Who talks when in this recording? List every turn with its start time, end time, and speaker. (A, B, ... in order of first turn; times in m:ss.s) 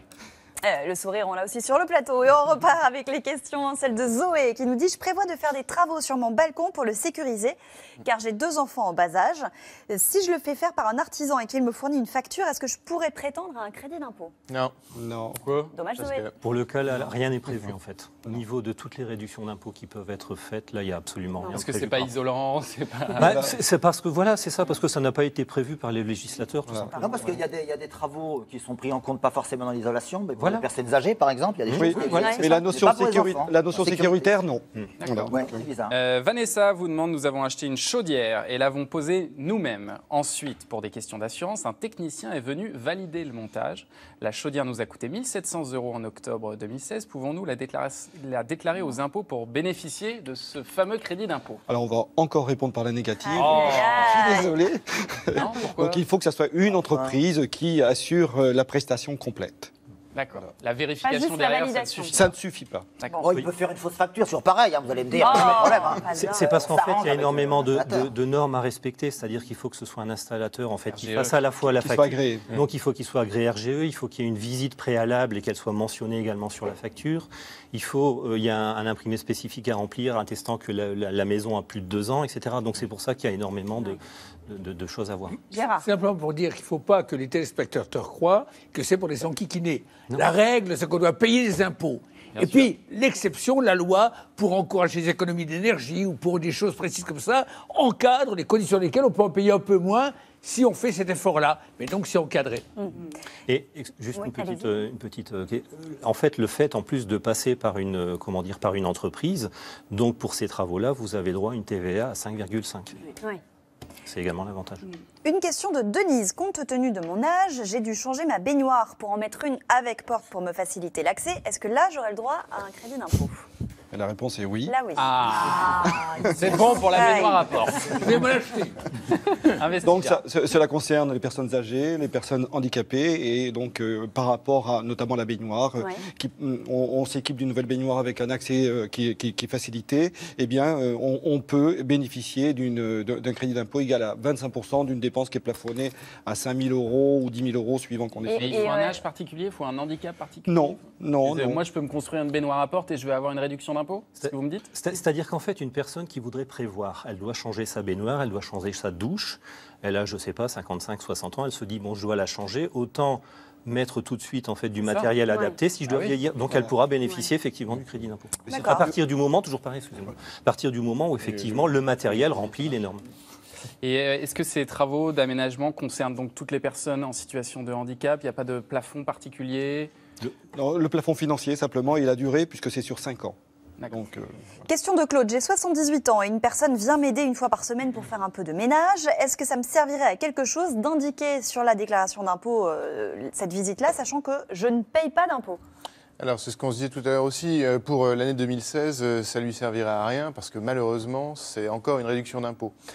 0:00.6-0:14.3 A
0:14.9-0:15.4 B
0:15.4-0:15.7 C
0:15.7-0:16.3 A
0:16.0-0:16.3 D
0:16.4-0:22.1 E
0:21.5-0:23.5 C
0:23.2-0:23.5 B
0:23.2-0:27.0 E
0:26.7-0:27.4 B
0:27.0-0:34.3 F
0:30.4-0:30.6 E
0:31.7-0:35.6 B
0:31.9-0:32.4 E
0:32.1-0:32.4 A
0:35.0-0:35.4 C
0:35.3-0:35.9 F
0:35.9-0:51.6 C
0:51.7-0:59.7 B
0:53.2-0:54.5 A
0:53.3-0:54.5 C
0:55.4-0:56.0 C
0:56.8-0:57.1 F
1:00.1-1:02.3 C
1:01.0-1:02.2 A
1:02.1-1:02.9 B
1:03.2-1:08.1 F
1:05.2-1:06.4 A
1:06.1-1:25.4 E
1:11.0-1:11.4 C
1:11.8-1:12.5 B
1:25.5-1:25.8 A
1:25.8-1:42.7 G
1:32.4-1:32.7 C
1:43.5-1:53.0 E
1:44.1-1:44.8 A
1:54.1-1:54.9 E
1:55.2-2:03.5 A
2:03.9-2:04.8 B
2:04.7-2:05.0 A
2:05.0-2:08.2 C
2:05.6-2:06.8 B
2:06.9-2:07.4 A
2:08.0-2:08.8 G
2:09.6-2:10.2 C
2:09.8-2:28.5 B
2:28.3-2:29.0 A
2:28.3-2:34.7 C
2:30.5-2:31.6 B
2:34.2-2:53.0 E
2:44.8-2:45.1 C
2:45.9-2:46.1 C
2:48.5-2:49.0 B
2:48.5-2:48.9 A
2:53.8-2:59.9 C
3:00.5-3:03.4 B
3:03.9-3:04.4 B
3:04.7-3:15.6 A
3:16.2-3:22.7 D